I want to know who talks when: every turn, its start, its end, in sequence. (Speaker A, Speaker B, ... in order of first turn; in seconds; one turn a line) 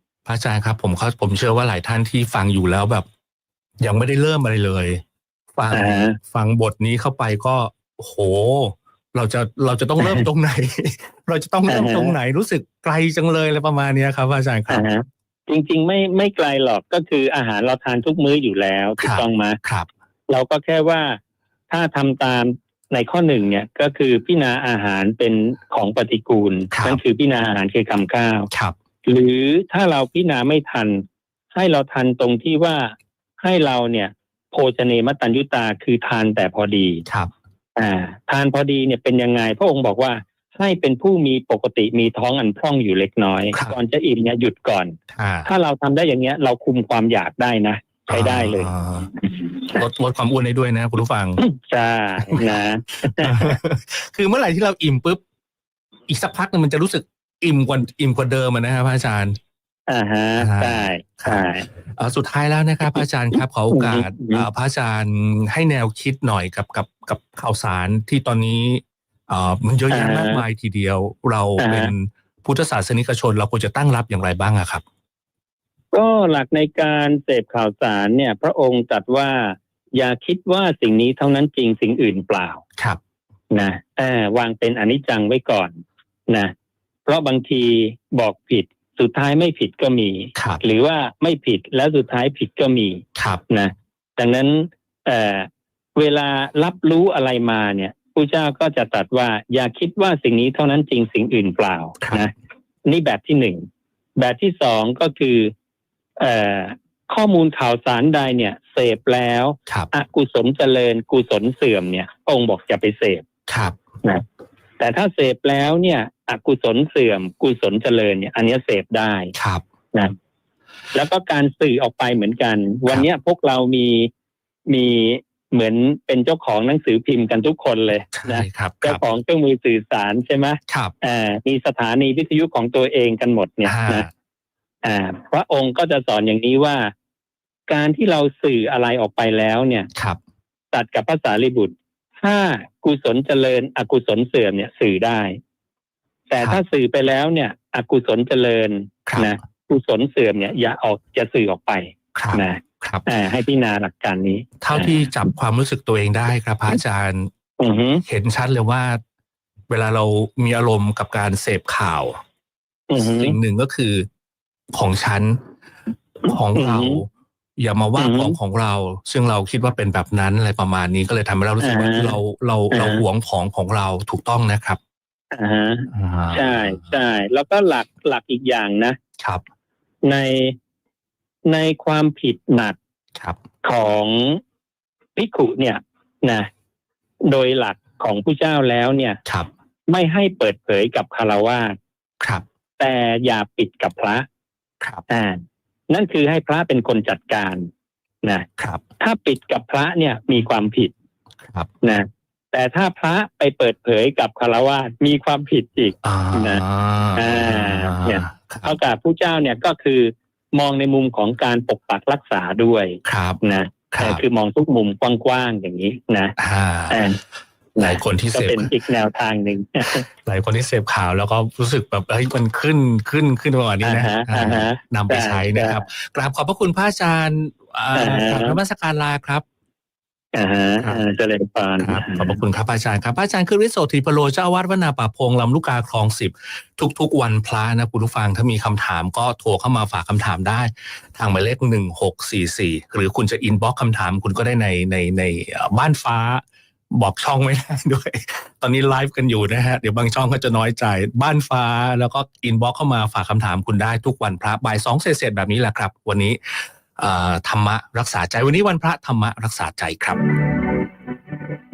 Speaker A: 0.2-3.0
Speaker A: 3.8-5.0
Speaker A: 5.5-14.8
Speaker B: 5.7-6.2
Speaker B: 10.0-10.2
Speaker B: 11.7-12.2
Speaker B: 14.7-19.6
Speaker A: 19.0-19.9
Speaker B: 20.3-28.5
Speaker A: 26.7-27.0
Speaker B: 29.0-37.0
Speaker B: 37.8-48.7
Speaker A: 45.1-45.5
Speaker A: 48.1-49.1
Speaker B: 49.2-49.8
Speaker A: 49.7-51.4
Speaker B: 51.4-53.6
Speaker A: 52.3-52.6
Speaker A: 53.2-55.2
Speaker A: 56.1-59.4
Speaker B: 59.9-61.6
Speaker A: 60.4-74.8
Speaker B: 63.7-64.5
Speaker B: 69.9-70.4
Speaker B: 71.6-71.9
Speaker B: 75.9-82.6
Speaker B: 83.5-86.5
Speaker B: 87.0-102.3
Speaker A: 90.3-90.6
Speaker A: 93.2-93.4
Speaker A: 102.0-102.3
Speaker B: 102.8-103.6
Speaker B: 104.2-105.5
Speaker B: 106.2-113.2
Speaker A: 113.5-113.7
Speaker B: 114.8-119.3
Speaker A: 119.3-119.6
Speaker B: 120.9-124.1
Speaker B: 124.7-134.1
Speaker A: 128.1-129.0
Speaker A: 130.7-130.9
Speaker A: 133.6-134.1
Speaker B: 134.8-136.9
Speaker B: 137.7-139.9
Speaker B: 140.7-145.4
Speaker B: 146.3-155.1
Speaker A: 149.1-149.3
Speaker A: 152.1-153.0
Speaker A: 154.6-157.3
Speaker B: 157.6-158.0
Speaker A: 158.1-159.0
Speaker A: 159.7-162.1
Speaker B: 162.9-163.4
Speaker A: 163.0-164.1
Speaker A: 164.7-165.4
Speaker A: 166.2-167.1
Speaker B: 166.5-167.0
Speaker A: 167.6-174.8
Speaker B: 168.0-168.4
Speaker B: 171.6-172.2
Speaker B: 172.7-173.0
Speaker B: 175.3-179.0
Speaker A: 175.9-176.8
Speaker B: 180.0-180.6
Speaker B: 181.5-182.8
Speaker B: 183.6-184.4
Speaker B: 185.1-186.5
Speaker B: 187.2-189.2
Speaker B: 189.9-191.8
Speaker B: 192.8-194.2
Speaker B: 195.1-197.7
Speaker B: 199.0-200.9
Speaker B: 201.8-206.6
Speaker A: 206.0-208.8
Speaker B: 207.2-216.3
Speaker A: 213.0-213.4
Speaker A: 213.9-214.2
Speaker A: 216.4-217.1
Speaker B: 216.9-217.2
Speaker B: 217.8-220.0
Speaker A: 217.8-218.7
Speaker A: 219.9-229.4
Speaker B: 223.8-225.8
Speaker B: 227.9-228.6
Speaker B: 230.3-232.4
Speaker A: 230.8-231.0
Speaker A: 231.8-260.2